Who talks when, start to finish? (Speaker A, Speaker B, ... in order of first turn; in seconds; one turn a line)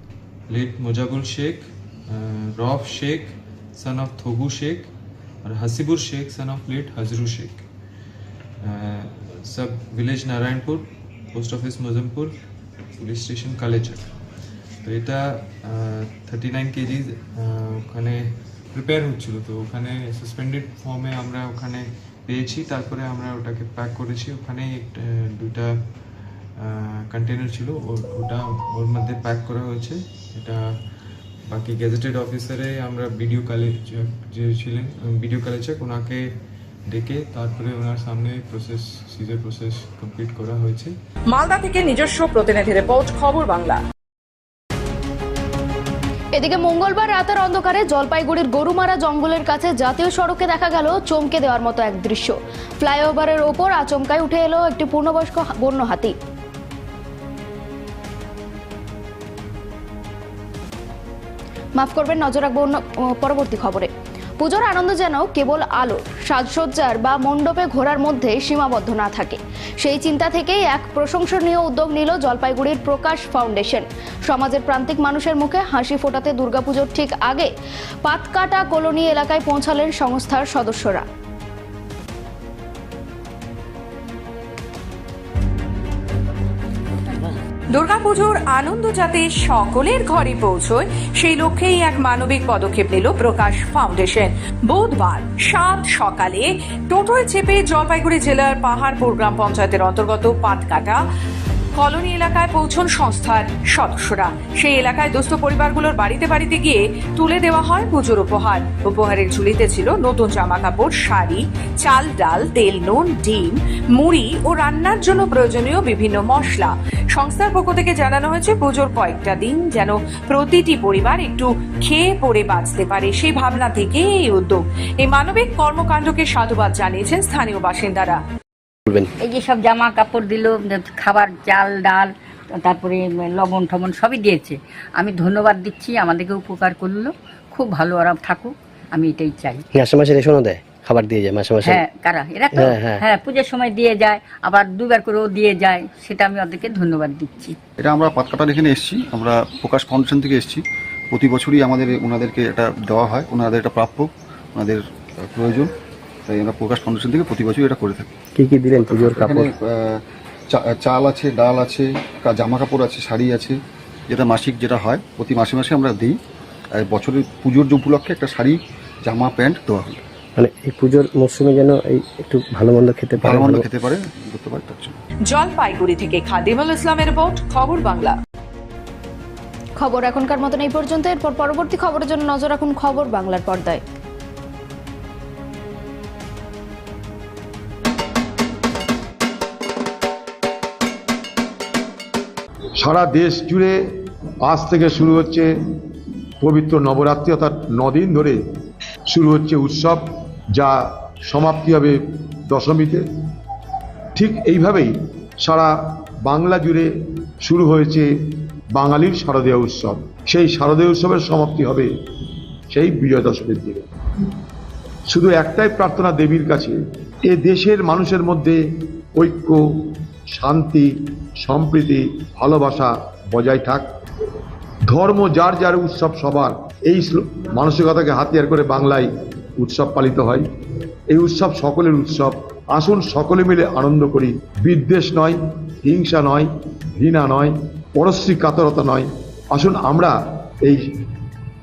Speaker A: 0.5-4.9
Speaker A: 5.4-7.6
Speaker A: 8.6-12.3
Speaker A: 13.0-14.1
Speaker A: 14.8-18.2
Speaker A: 18.7-25.7
Speaker A: 26.6-30.6
Speaker A: 31.5-36.2
Speaker A: 36.9-40.9
Speaker B: 41.3-43.8
Speaker C: 46.3-56.1
Speaker C: 61.8-77.5
Speaker C: 78.0-81.0
Speaker B: 87.7-101.0
Speaker B: 101.8-128.2
Speaker D: 129.2-132.1
Speaker D: 132.6-139.6
Speaker E: 139.7-141.8
Speaker D: 141.6-147.6
Speaker E: 142.5-143.0
Speaker F: 147.8-155.7
Speaker F: 156.3-158.1
Speaker E: 158.3-159.5
Speaker F: 158.8-159.9
Speaker F: 160.5-163.6
Speaker F: 164.1-166.2
Speaker F: 166.8-170.0
Speaker E: 170.4-173.7
Speaker F: 173.2-174.9
Speaker B: 175.3-178.2
Speaker C: 179.8-183.8
Speaker G: 192.8-193.8
Speaker G: 194.4-195.5
Speaker G: 196.4-198.4
Speaker G: 199.1-203.0
Speaker G: 204.1-206.9
Speaker G: 207.4-208.1
Speaker G: 208.7-211.9
Speaker G: 212.7-213.9
Speaker G: 215.1-218.6
Speaker G: 219.1-223.8
Speaker G: 224.8-230.5
Speaker G: 231.1-240.9